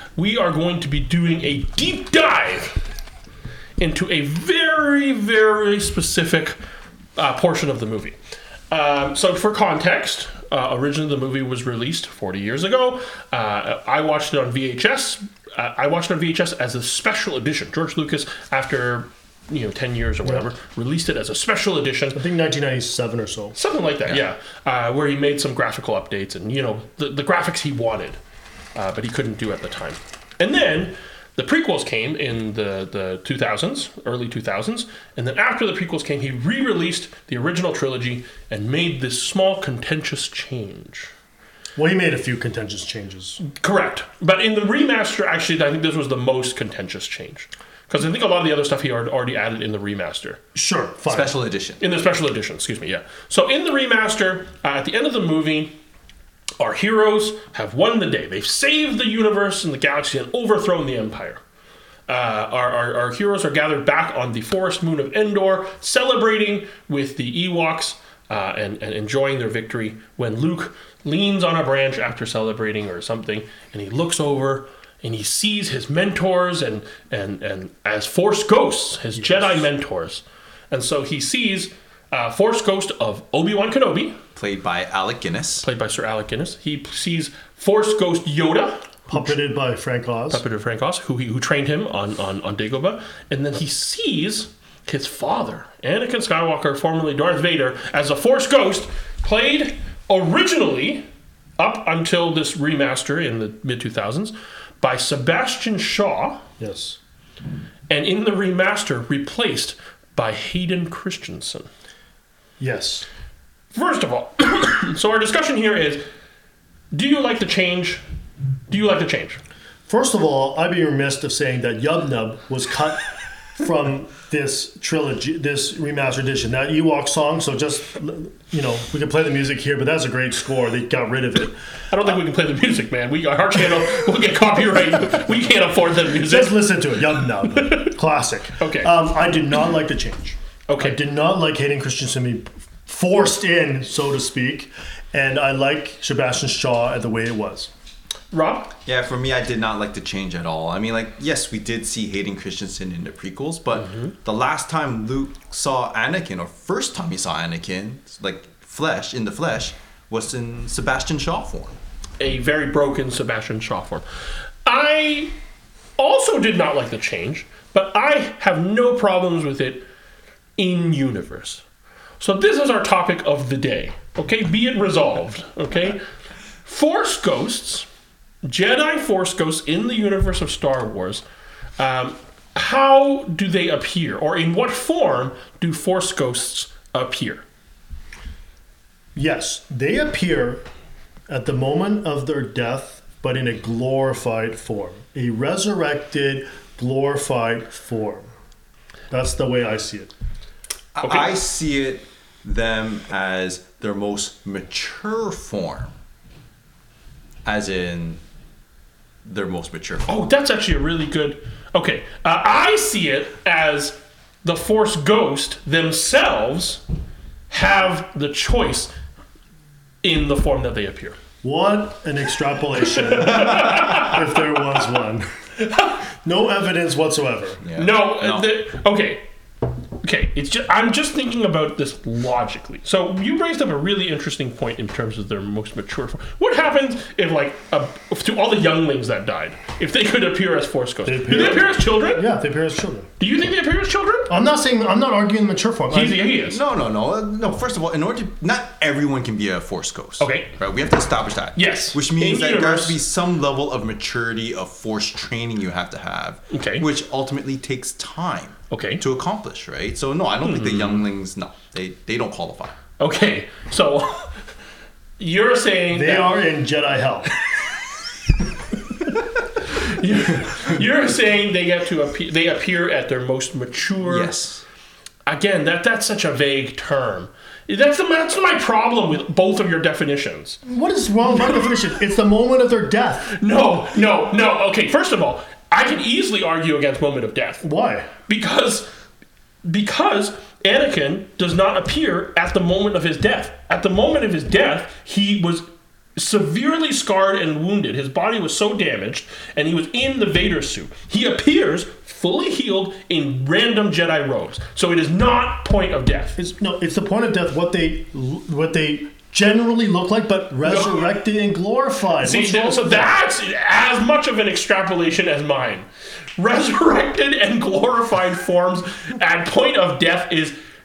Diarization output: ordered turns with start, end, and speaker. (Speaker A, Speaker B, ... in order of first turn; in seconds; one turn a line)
Speaker A: 0.2-2.8
Speaker A: 3.8-6.6
Speaker A: 7.2-8.2
Speaker A: 8.7-22.2
Speaker B: 20.2-20.5
Speaker B: 22.1-23.6
Speaker A: 23.6-28.2
Speaker A: 28.8-41.1
Speaker B: 41.8-43.4
Speaker A: 43.4-50.4
Speaker B: 50.5-51.3
Speaker C: 51.1-51.8
Speaker A: 51.8-55.7
Speaker A: 56.6-61.4
Speaker A: 62.1-84.2
Speaker B: 79.2-79.7
Speaker C: 84.4-85.7
Speaker A: 85.6-89.4
Speaker B: 89.1-90.4
Speaker A: 90.3-101.0
Speaker A: 101.6-106.4
Speaker B: 106.6-107.0
Speaker A: 107.9-111.7
Speaker B: 112.6-113.1
Speaker A: 113.7-116.0
Speaker A: 116.9-118.0
Speaker A: 118.7-119.4
Speaker B: 119.9-123.1
Speaker B: 123.6-132.2
Speaker A: 131.9-136.7
Speaker B: 136.2-147.7
Speaker A: 137.6-137.9
Speaker A: 138.6-138.9
Speaker A: 140.7-141.0
Speaker A: 148.3-148.7
Speaker C: 148.8-161.8
Speaker A: 153.8-154.1
Speaker A: 162.2-164.1
Speaker A: 164.7-165.3
Speaker A: 166.0-169.8
Speaker A: 170.6-171.7
Speaker A: 172.2-176.0
Speaker A: 176.7-177.9
Speaker A: 178.4-181.2
Speaker A: 181.8-187.4
Speaker B: 189.2-190.7
Speaker B: 191.3-198.3
Speaker B: 199.1-200.1
Speaker C: 200.9-205.9
Speaker A: 201.0-201.4
Speaker C: 207.4-208.2
Speaker C: 209.2-210.2
Speaker A: 210.1-216.8
Speaker A: 217.5-218.9
Speaker A: 220.0-221.2
Speaker B: 221.4-225.3
Speaker A: 222.9-224.2
Speaker A: 225.7-226.0
Speaker B: 226.2-227.6
Speaker C: 227.6-228.5
Speaker A: 227.8-229.2
Speaker A: 230.0-242.3
Speaker B: 241.1-243.1
Speaker A: 243.2-244.3
Speaker B: 244.3-246.3
Speaker A: 245.9-246.6
Speaker C: 246.4-262.8
Speaker A: 250.2-250.6
Speaker A: 251.6-253.0
Speaker A: 256.5-256.9
Speaker A: 258.7-259.0
Speaker A: 260.4-261.1
Speaker A: 263.0-264.3
Speaker A: 265.2-266.4
Speaker B: 265.9-267.3
Speaker A: 269.6-274.4
Speaker C: 274.1-274.6
Speaker A: 275.3-280.6
Speaker B: 280.7-283.3
Speaker A: 283.3-287.6
Speaker B: 287.6-288.1
Speaker A: 288.3-288.9
Speaker A: 289.6-295.6
Speaker A: 296.2-306.4
Speaker B: 306.4-313.1
Speaker A: 310.6-311.0
Speaker A: 312.2-320.6